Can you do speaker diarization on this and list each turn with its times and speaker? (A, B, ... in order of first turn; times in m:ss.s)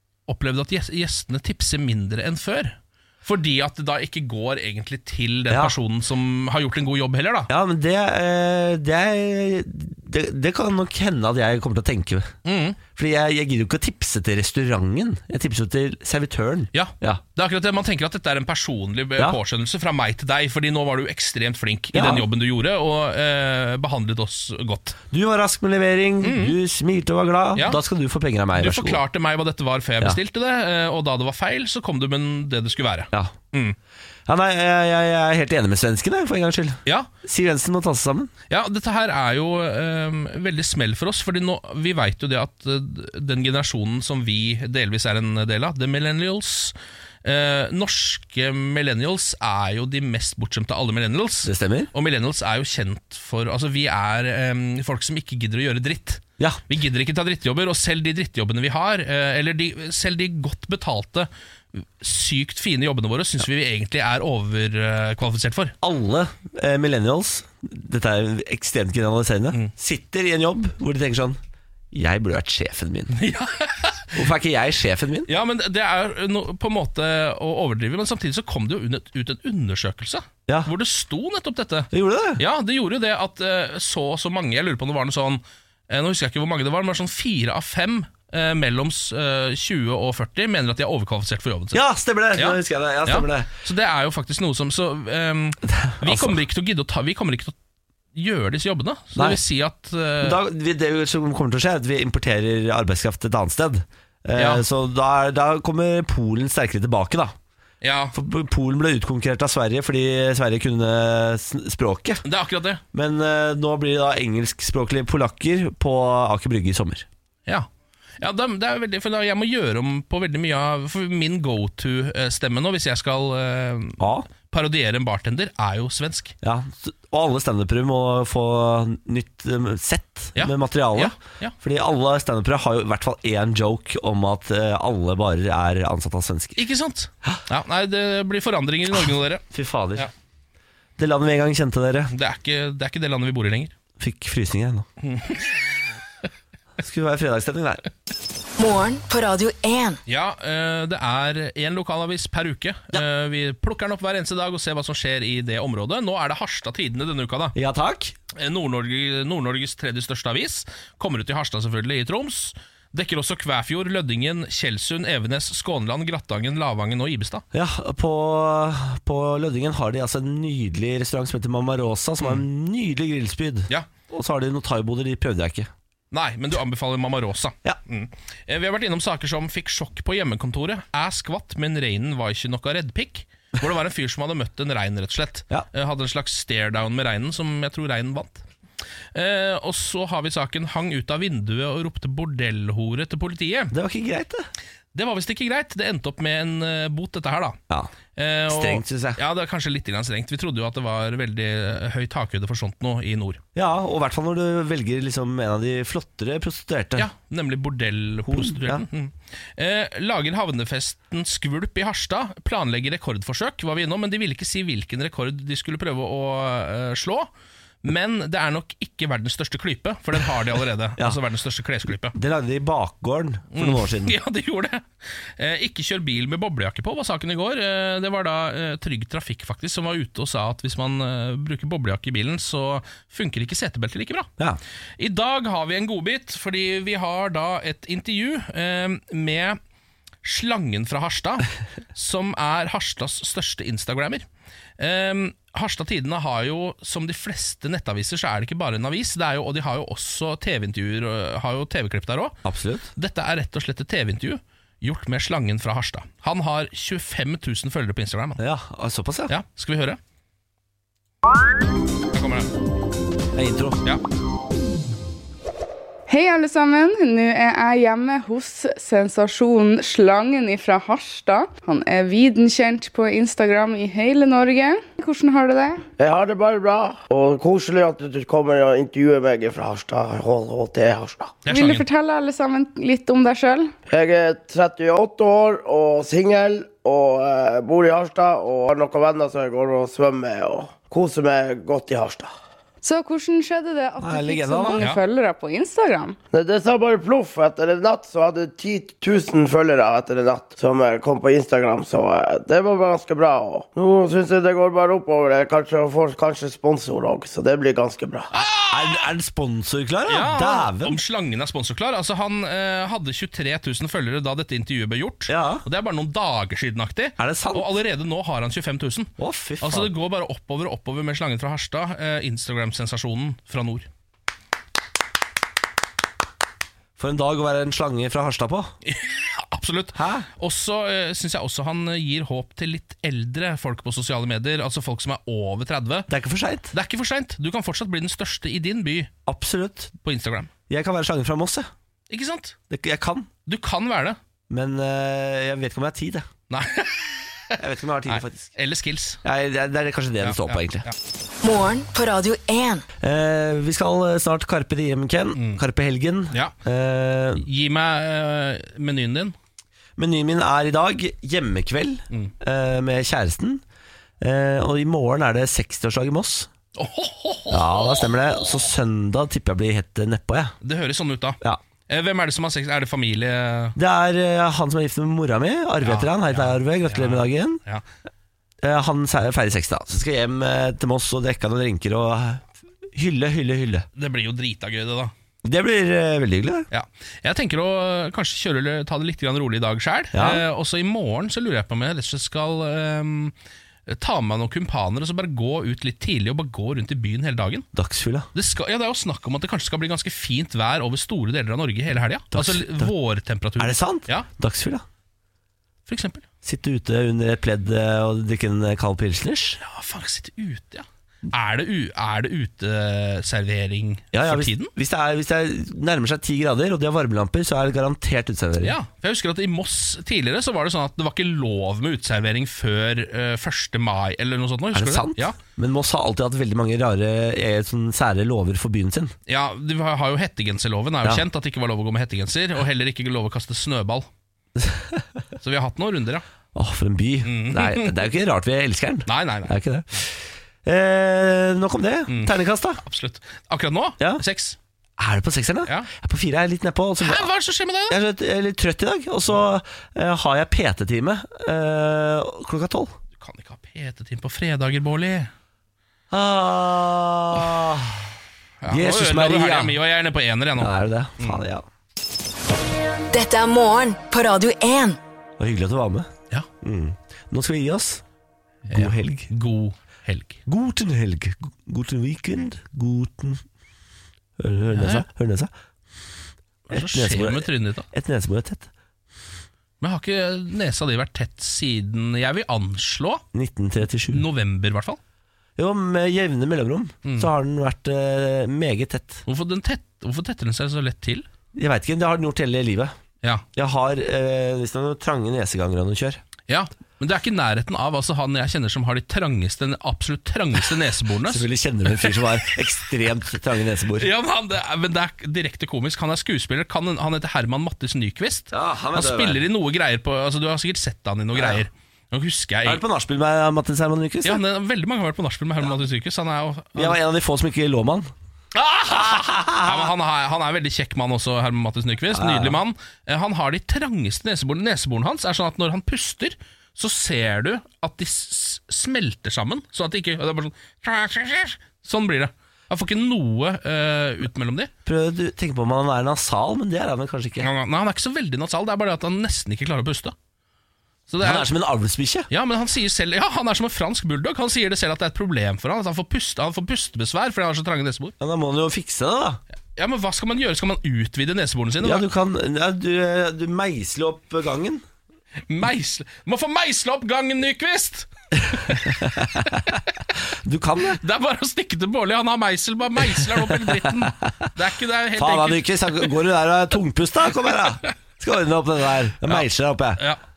0:00.3-0:07.5 A
0:07.5-0:12.3 B
0:12.4-0:12.8 A
0:12.9-0:17.2 B
0:16.7-0:25.0 A
0:21.9-0:22.2 B
0:25.1-0:29.0 B
0:26.2-0:26.6 A
0:27.5-0:27.8 A
0:28.5-0:33.8 A
0:34.3-0:38.3 B
0:38.5-1:05.7 A
0:51.4-0:51.9 B
1:05.8-1:11.4 B
1:11.9-1:13.1 B
1:13.1-1:14.2 A
1:14.1-1:15.3 B
1:15.3-1:37.5 A
1:21.9-1:22.4 B
1:31.7-1:33.5 B
1:35.7-1:36.4 B
1:38.1-1:40.4 A
1:39.1-1:39.4 B
1:40.2-1:47.3 B
1:44.3-1:44.6 A
1:47.8-1:48.1 A
1:48.1-1:52.2 B
1:52.2-1:52.8 A
1:52.9-1:57.1 B
1:58.2-2:06.3 A
2:04.0-2:04.3 B
2:06.4-2:16.6 B
2:10.4-2:11.5 A
2:16.6-2:19.4 A
2:19.5-2:20.1 B
2:21.0-2:22.1 B
2:22.1-2:23.7 A
2:24.0-2:24.9 B
2:25.0-2:25.6 A
2:26.8-2:27.8 B
2:28.6-2:30.0 C
2:30.1-2:37.6 A
2:37.5-2:38.1 B
2:38.3-2:47.4 A
2:47.5-2:55.7 B
2:56.1-3:08.4 A
3:09.1-3:13.7 A
3:13.7-3:14.5 B
3:14.9-3:17.6 A
3:18.1-3:23.4 A
3:18.5-3:19.2 B
3:23.5-3:27.1 B
3:27.0-3:37.3 A
3:28.2-3:28.8 B
3:37.8-3:42.1 A
3:41.9-3:44.2 B
3:43.5-3:54.3 A
3:55.0-3:59.6 A
4:00.2-4:04.2 A
4:04.8-4:12.4 A
4:12.4-4:12.9 B
4:12.9-4:18.4 A
4:18.4-4:19.3 B
4:19.3-4:20.0 A
4:22.1-4:22.5 A
4:23.3-4:23.8 B
4:26.1-4:35.8 D
4:36.0-4:41.4 E
4:41.4-4:41.8 A
4:41.5-4:43.7 D
4:43.9-4:52.3 E
4:52.8-4:56.2 D
4:54.0-4:54.8 B
4:56.3-5:08.3 E
5:08.3-5:09.1 A
5:08.7-5:11.0 B
5:10.1-5:23.9 A
5:15.3-5:15.6 B
5:17.2-5:17.8 B
5:19.2-5:19.9 B
5:27.0-5:28.7 B
5:28.8-5:36.1 A
5:29.9-5:30.3 B
5:36.1-5:36.7 B
5:36.7-5:39.1 A
5:39.2-5:39.9 B
5:40.0-5:40.5 A
5:40.7-5:41.7 B
5:42.1-5:42.6 A
5:42.7-5:43.3 B
5:43.4-5:44.2 A
5:44.5-5:46.3 B
5:46.5-5:49.2 A
5:47.6-5:48.5 B
5:49.2-5:50.8 B
5:50.2-5:50.9 A
5:51.4-5:52.8 C
5:53.0-5:57.5 B
5:55.3-5:55.6 A
5:57.4-5:59.4 A
6:00.0-6:03.6 B
6:04.2-6:06.5 B
6:06.8-6:08.0 A
6:07.5-6:10.5 B
6:10.6-6:13.8 A
6:13.8-6:17.6 B
6:15.8-6:17.8 A
6:18.6-6:23.9 B
6:23.9-6:25.1 A
6:25.4-6:26.7 B
6:26.7-6:33.3 A
6:30.1-6:30.4 B
6:33.9-6:37.7 A
6:37.7-6:38.3 B
6:38.3-6:44.3 A
6:42.3-6:42.9 B
6:43.6-6:44.8 B
6:45.9-6:46.2 A
6:46.4-6:49.6 B
6:49.6-6:54.7 A
6:54.1-6:58.8 B
6:58.6-7:05.4 A
7:04.7-7:09.1 B
7:09.3-7:14.1 A
7:14.6-7:15.0 B
7:15.4-7:16.2 A
7:16.5-7:22.8 B
7:17.2-7:18.0 A
7:19.1-7:19.6 A
7:22.1-7:24.6 A
7:25.0-7:27.3 B
7:27.0-7:28.0 A
7:27.9-7:32.9 B
7:33.2-7:35.3 A
7:36.1-7:38.1 B
7:38.6-7:41.4 A
7:38.7-7:39.8 B
7:40.6-7:41.6 B
7:43.1-7:45.0 C
7:45.4-7:46.1 B
7:46.6-7:48.0 B
7:48.7-7:50.4 A
7:48.7-7:49.3 B
7:50.4-7:53.4 B
7:54.4-7:55.5 B
7:54.7-7:55.0 A
7:56.7-7:57.9 A
7:56.7-7:58.7 B
7:59.8-8:03.2 A
8:03.3-8:04.2 B
8:04.1-8:05.0 A
8:05.6-8:09.2 B
8:07.0-8:07.3 A
8:09.2-8:11.3 A
8:11.5-8:12.9 B
8:13.5-8:16.2 B
8:16.5-8:22.1 A
8:21.2-8:24.1 B
8:24.0-8:32.8 A
8:28.5-8:29.4 B
8:31.3-8:31.6 B
8:32.6-8:34.4 B
8:34.2-8:37.0 A
8:36.7-8:38.1 B
8:38.5-8:54.7 A
8:38.9-8:39.9 B
8:42.1-8:42.6 B
8:54.8-8:57.5 B
8:57.4-9:00.1 A
9:01.1-9:01.5 A
9:01.2-9:02.3 B
9:02.3-9:08.1 A
9:08.2-9:09.4 B
9:09.8-9:12.1 A
9:11.8-9:14.8 B
9:15.5-9:19.8 A
9:18.5-9:19.6 B
9:20.3-9:21.0 B
9:21.0-9:26.1 A
9:23.2-9:24.1 B
9:25.2-9:30.0 B